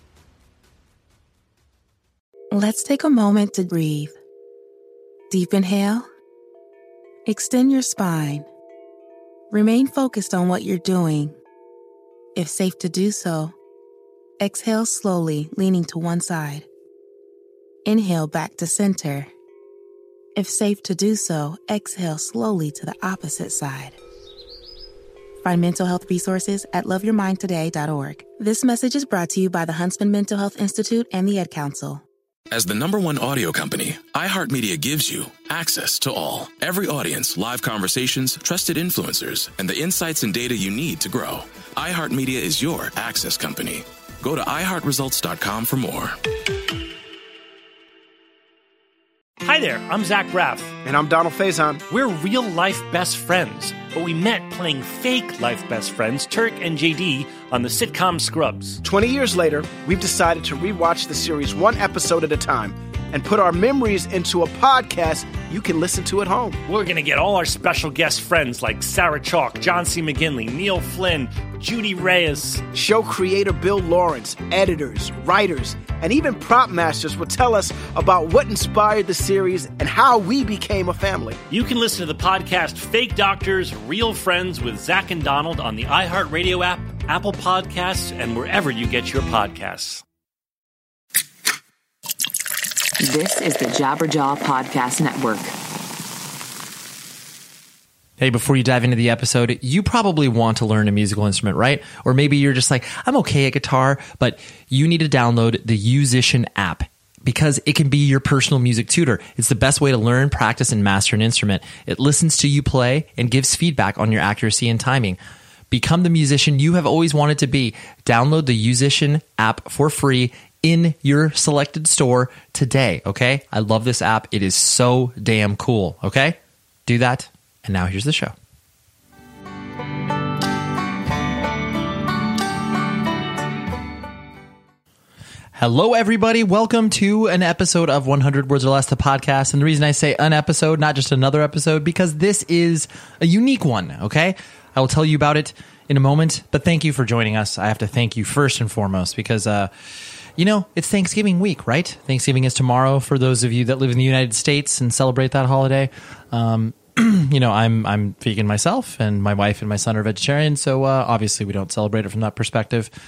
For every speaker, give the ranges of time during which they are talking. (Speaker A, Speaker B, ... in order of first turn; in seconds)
Speaker A: 2.5-4.2, 5.3-6.1, 7.3-8.5, 9.5-11.4, 12.4-13.5, 14.4-16.7, 17.9-19.3, 20.4-24.0, 25.4-32.0
Speaker B: 32.5-46.2
Speaker C: 49.4-50.8, 51.9-58.8, 66.7-72.7, 81.5-90.0
Speaker D: 50.8-51.8, 58.8-66.6, 72.7-81.4
Speaker E: 93.0-95.5
Speaker F: 98.2-115.2, 115.7-128.3, 135.6-149.7, 150.4-162.9